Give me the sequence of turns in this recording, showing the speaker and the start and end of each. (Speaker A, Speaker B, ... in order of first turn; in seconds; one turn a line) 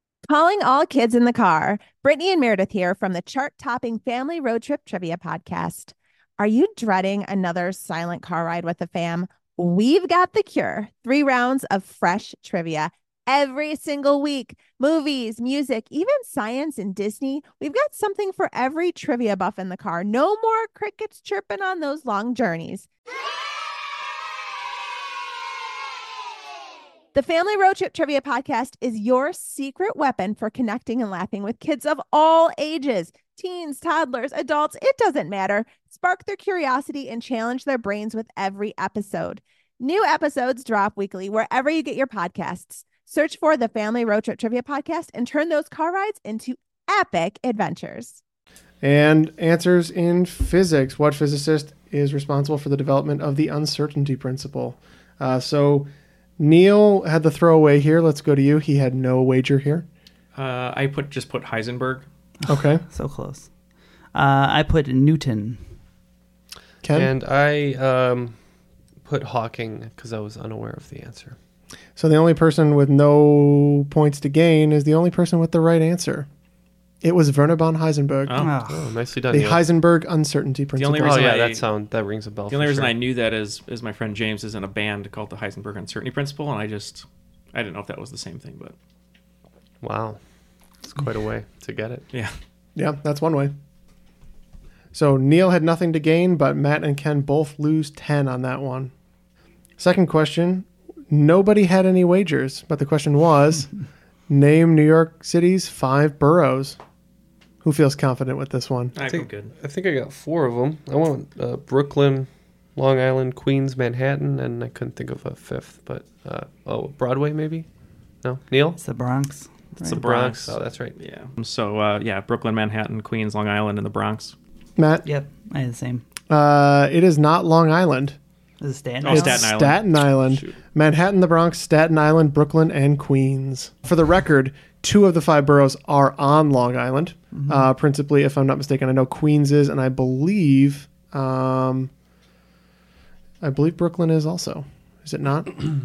Speaker A: 0.3-22.9
Speaker A: 27.1-48.2
Speaker B: 48.8-59.9
Speaker C: 60.4-62.1
Speaker D: 62.4-63.5
Speaker B: 62.5-62.8
Speaker D: 64.1-65.6
Speaker B: 66.8-67.1
Speaker E: 66.9-68.4
Speaker E: 69.0-71.4
Speaker B: 72.0-76.3
Speaker B: 77.0-78.5
Speaker D: 78.3-79.0
Speaker E: 78.6-79.7
Speaker B: 79.3-81.4
Speaker C: 80.8-81.7
Speaker E: 81.0-82.9
Speaker C: 82.5-88.7
Speaker E: 89.8-90.2
Speaker E: 90.8-92.0
Speaker B: 92.8-93.5
Speaker B: 94.9-98.9
Speaker B: 99.8-103.7
Speaker B: 104.3-106.8
Speaker B: 107.6-108.9
Speaker C: 109.0-109.5
Speaker E: 109.0-117.7
Speaker E: 118.2-118.8
Speaker D: 118.8-120.2
Speaker C: 119.8-124.3
Speaker E: 119.9-121.0
Speaker B: 124.8-125.0
Speaker D: 125.0-126.0
Speaker B: 126.3-128.2
Speaker D: 128.6-129.5
Speaker C: 129.0-130.6
Speaker B: 129.1-141.9
Speaker D: 137.3-137.7
Speaker B: 143.4-145.6